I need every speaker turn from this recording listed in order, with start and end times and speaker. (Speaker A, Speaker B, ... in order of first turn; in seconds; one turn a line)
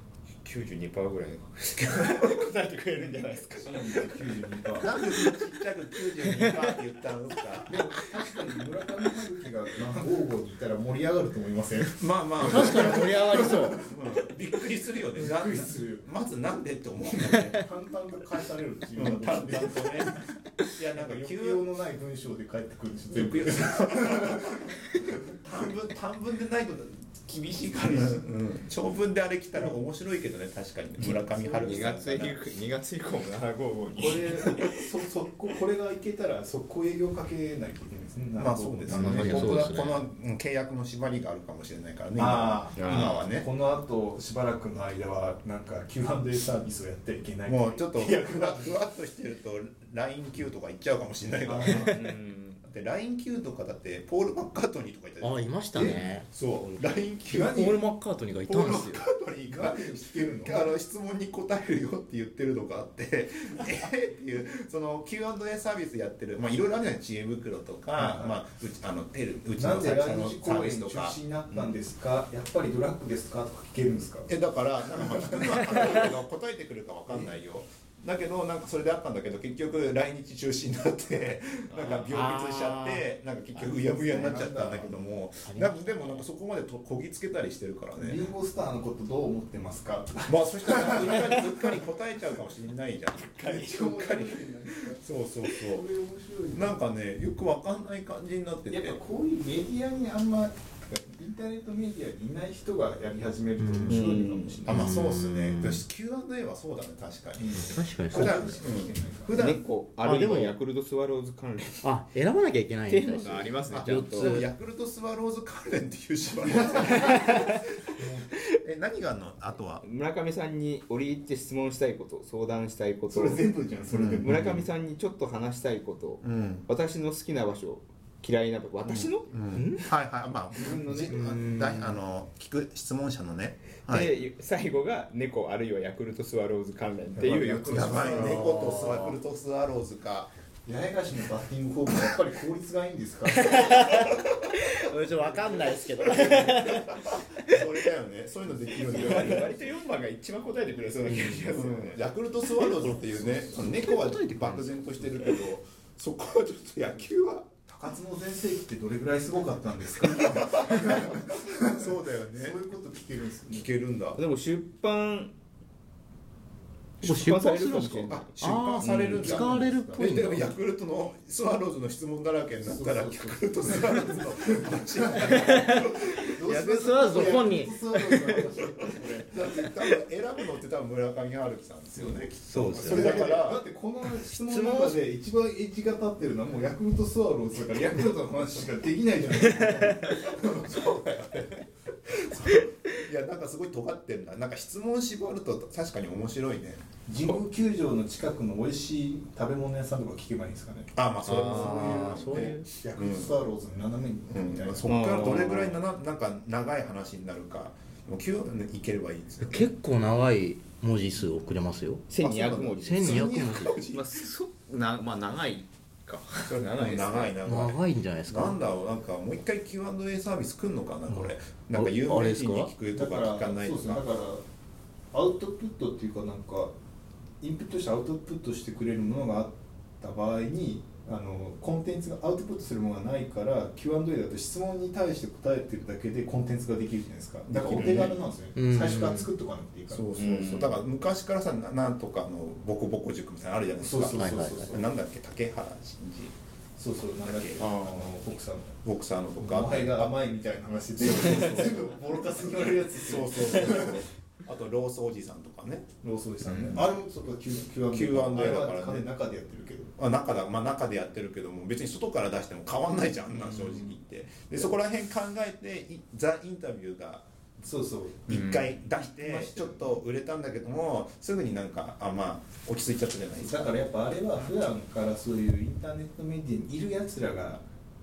Speaker A: 0.4-4.3
Speaker B: 3.6-4.9
Speaker C: 4.8-7.8
Speaker A: 4.9-5.3
Speaker D: 6.3-6.7
Speaker B: 7.6-13.9
Speaker C: 12.0-17.6
Speaker D: 12.4-13.8
Speaker B: 15.1-16.1
Speaker B: 17.4-20.3
Speaker C: 18.9-21.7
Speaker B: 20.9-25.1
Speaker C: 23.1-32.4
Speaker B: 27.6-28.2
Speaker B: 31.3-31.7
Speaker A: 31.4-34.8
Speaker B: 34.0-39.6
Speaker C: 38.4-43.5
Speaker D: 38.9-40.1
Speaker B: 42.1-48.8
Speaker A: 42.7-43.2
Speaker C: 47.5-52.0
Speaker B: 51.4-52.0
Speaker A: 51.8-52.6
Speaker C: 52.6-57.6
Speaker D: 55.2-56.9
Speaker B: 57.3-57.8
Speaker D: 57.4-59.0
Speaker C: 58.5-71.2
Speaker B: 59.5-60.7
Speaker B: 67.9-68.4
Speaker B: 69.6-74.3
Speaker C: 74.3-88.3
Speaker B: 75.0-75.3
Speaker B: 77.1-77.3
Speaker A: 81.7-82.0
Speaker D: 82.1-83.0
Speaker B: 83.9-85.0
Speaker D: 85.5-86.2
Speaker B: 88.0-91.8
Speaker C: 90.2-95.8
Speaker B: 93.2-96.8
Speaker C: 96.5-99.0
Speaker B: 98.7-104.9
Speaker D: 103.6-104.0
Speaker A: 103.9-104.6
Speaker C: 104.6-109.6
Speaker D: 104.7-105.8
Speaker B: 107.4-109.4
Speaker D: 107.5-108.5
Speaker A: 109.3-111.9
Speaker D: 110.0-110.5
Speaker D: 111.8-114.5
Speaker A: 112.8-114.4
Speaker C: 113.7-117.5
Speaker B: 117.9-118.3
Speaker C: 118.5-119.8
Speaker A: 119.8-123.4
Speaker B: 123.1-124.4
Speaker C: 123.9-124.7
Speaker A: 124.2-129.3
Speaker C: 126.2-126.7
Speaker C: 128.8-134.1
Speaker D: 129.5-129.9
Speaker B: 130.5-131.2
Speaker D: 131.1-132.0
Speaker A: 133.9-138.4
Speaker B: 137.2-138.4
Speaker C: 137.6-140.3
Speaker D: 138.2-139.2
Speaker B: 140.7-143.5
Speaker D: 143.3-147.6
Speaker C: 146.0-149.7
Speaker A: 148.8-152.0
Speaker D: 151.1-151.4
Speaker C: 151.3-157.5
Speaker D: 152.4-154.6
Speaker B: 157.7-163.7
Speaker C: 160.0-162.6
Speaker C: 163.5-164.2
Speaker A: 164.1-165.3
Speaker A: 167.0-168.9
Speaker D: 167.0-170.5
Speaker C: 168.1-176.2
Speaker B: 169.0-170.3
Speaker B: 172.6-179.7
Speaker D: 175.3-178.3
Speaker C: 179.3-183.6
Speaker B: 181.9-182.2
Speaker D: 182.4-183.3
Speaker B: 182.7-190.9
Speaker D: 184.2-185.0
Speaker C: 190.3-196.8
Speaker B: 197.1-205.0
Speaker C: 200.9-203.4
Speaker D: 201.2-202.7
Speaker C: 204.3-209.7
Speaker A: 204.8-205.8
Speaker D: 209.4-213.8
Speaker A: 212.1-213.4
Speaker C: 212.2-214.3
Speaker A: 213.9-217.3
Speaker C: 216.5-224.1
Speaker D: 217.4-218.6
Speaker D: 221.1-222.7
Speaker B: 222.9-224.4
Speaker B: 225.1-226.7
Speaker B: 227.4-240.1
Speaker C: 237.4-238.2
Speaker D: 238.6-239.3
Speaker C: 239.9-246.3
Speaker A: 240.2-240.8
Speaker B: 243.8-244.9
Speaker D: 244.2-244.7
Speaker B: 246.8-248.8
Speaker C: 247.2-248.2
Speaker C: 248.8-250.1
Speaker B: 249.4-254.0
Speaker C: 251.0-251.8
Speaker C: 253.0-255.9
Speaker B: 256.0-259.9
Speaker C: 256.4-256.8
Speaker C: 257.9-259.1
Speaker C: 260.0-267.2
Speaker A: 263.5-263.8
Speaker B: 267.6-270.0
Speaker C: 268.3-273.7
Speaker B: 273.4-277.6